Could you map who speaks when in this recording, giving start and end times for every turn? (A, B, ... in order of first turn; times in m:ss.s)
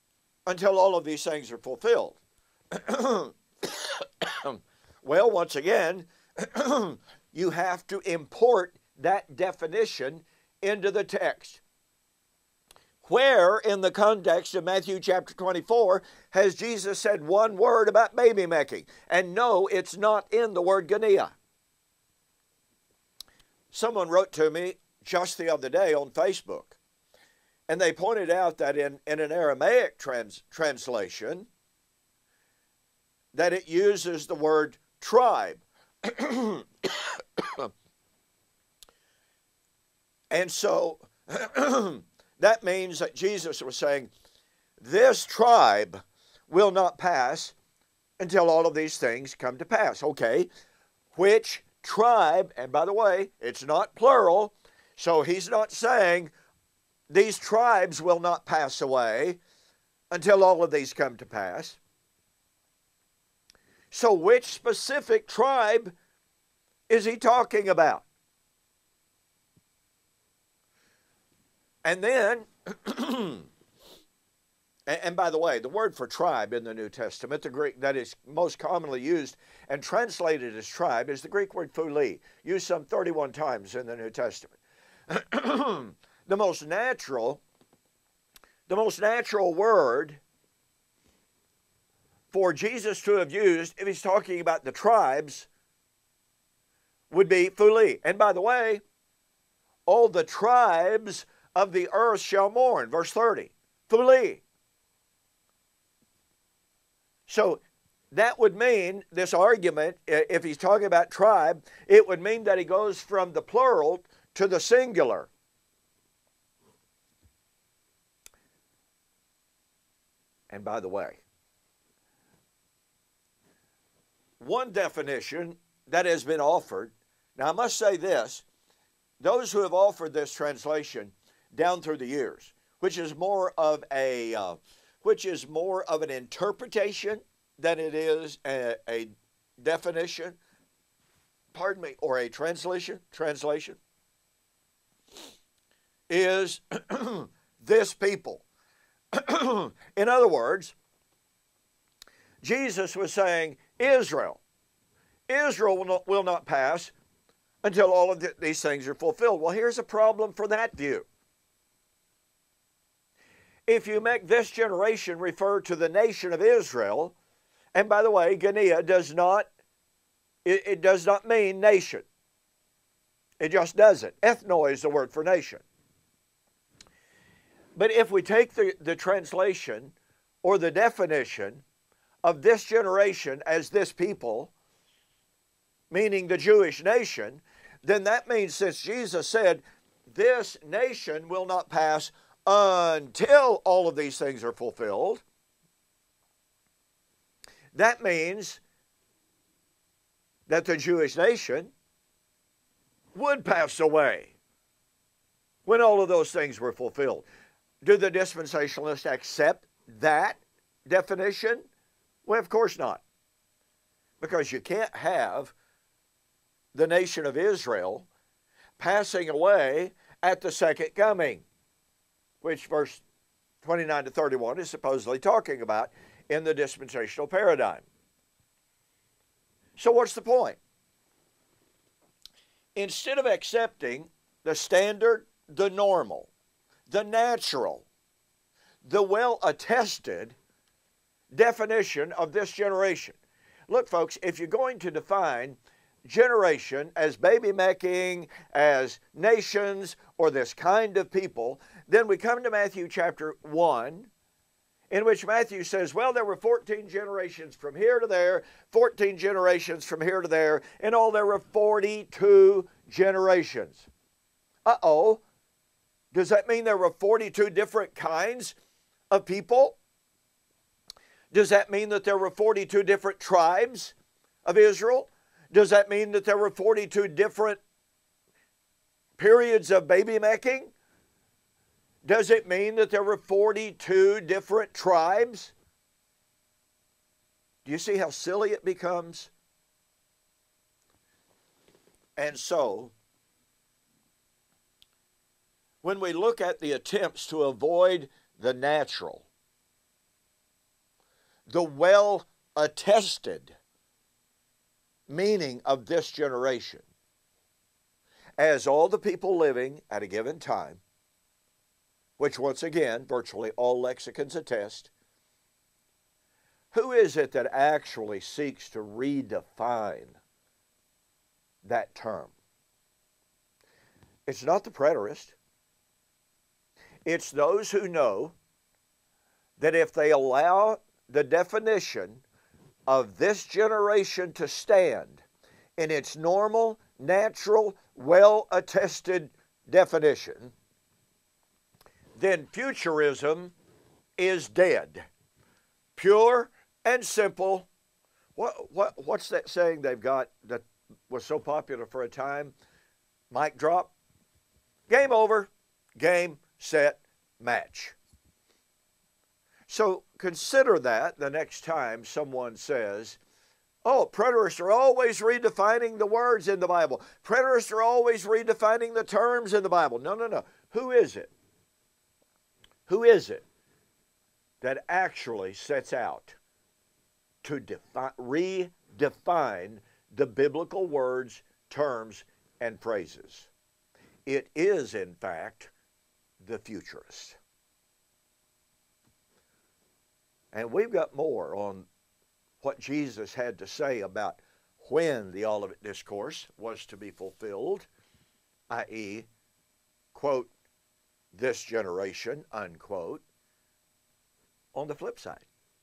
0:00.4-0:02.2 A
0:02.7-0:11.6 A
0:13.0-0:21.3 A
0:23.7-0:26.8 A
0:27.7-0:31.5 A
0:33.3-0:37.7 A
0:40.3-0:44.1 A
0:44.8-0:47.5 A
0:48.2-0:50.5 A
0:51.1-0:56.3 A
0:57.1-0:59.4 A
1:00.1-1:01.8 A
1:03.9-1:05.9 A
1:06.9-1:08.0 A
1:11.8-1:13.5 A
1:14.9-1:24.6 A
1:25.1-1:27.4 A
1:28.7-1:30.2 A
1:32.3-1:35.5 A
1:37.1-1:38.8 A
1:39.9-1:44.4 A
1:47.3-1:55.3 A
2:00.5-2:01.2 A
2:04.4-2:08.4 A
2:09.2-2:20.4 A
2:21.5-2:23.8 A
2:26.1-2:28.4 A
2:29.1-2:30.7 A
2:32.4-2:34.4 A
2:35.3-2:36.9 A
2:37.6-2:41.1 A
2:43.7-2:47.2 A
2:47.7-2:49.5 A
2:50.4-2:52.1 A
2:53.4-2:55.6 A
2:57.7-3:01.6 A
3:02.2-3:04.5 A
3:05.9-3:15.2 A
3:17.7-3:18.6 A
3:20.5-3:21.7 A
3:23.1-3:24.3 A
3:25.6-3:27.2 A
3:27.8-3:31.7 A
3:32.2-3:33.0 A
3:34.2-3:35.5 A
3:36.7-3:38.1 A
3:38.8-3:41.4 A
3:42.4-3:43.0 A
3:43.6-3:47.8 A
3:49.8-3:50.6 A
3:52.8-3:56.3 A
3:56.9-3:57.9 A
3:58.8-4:00.4 A
4:01.3-4:03.2 A
4:03.7-4:14.1 A
4:14.9-4:23.9 A
4:24.6-4:25.2 A
4:26.1-4:28.5 A
4:29.1-4:29.8 A
4:31.3-4:37.6 A
4:39.2-4:40.7 A
4:42.0-4:45.5 A
4:47.6-4:49.3 A
4:52.2-4:52.9 A
4:55.8-4:59.3 A
5:01.5-5:03.6 A
5:05.1-5:06.8 A
5:08.4-5:10.8 A
5:12.2-5:14.9 A
5:16.7-5:20.2 A
5:21.6-5:22.3 A
5:24.2-5:25.4 A
5:27.0-5:28.3 A
5:29.6-5:32.2 A
5:32.9-5:35.2 A
5:35.8-5:40.5 A
5:42.2-5:43.5 A
5:44.2-5:45.0 A
5:46.0-5:47.7 A
5:48.4-5:52.5 A
5:53.3-5:53.9 A
5:54.9-5:58.0 A
5:59.7-6:03.2 A
6:03.8-6:11.3 A
6:12.9-6:13.4 A
6:14.6-6:16.4 A
6:17.4-6:23.5 A
6:24.2-6:25.7 A
6:26.4-6:27.4 A
6:30.5-6:31.9 A
6:32.6-6:37.9 A
6:38.7-6:39.3 A
6:40.1-6:40.5 A
6:41.3-6:43.2 A
6:44.7-6:45.5 A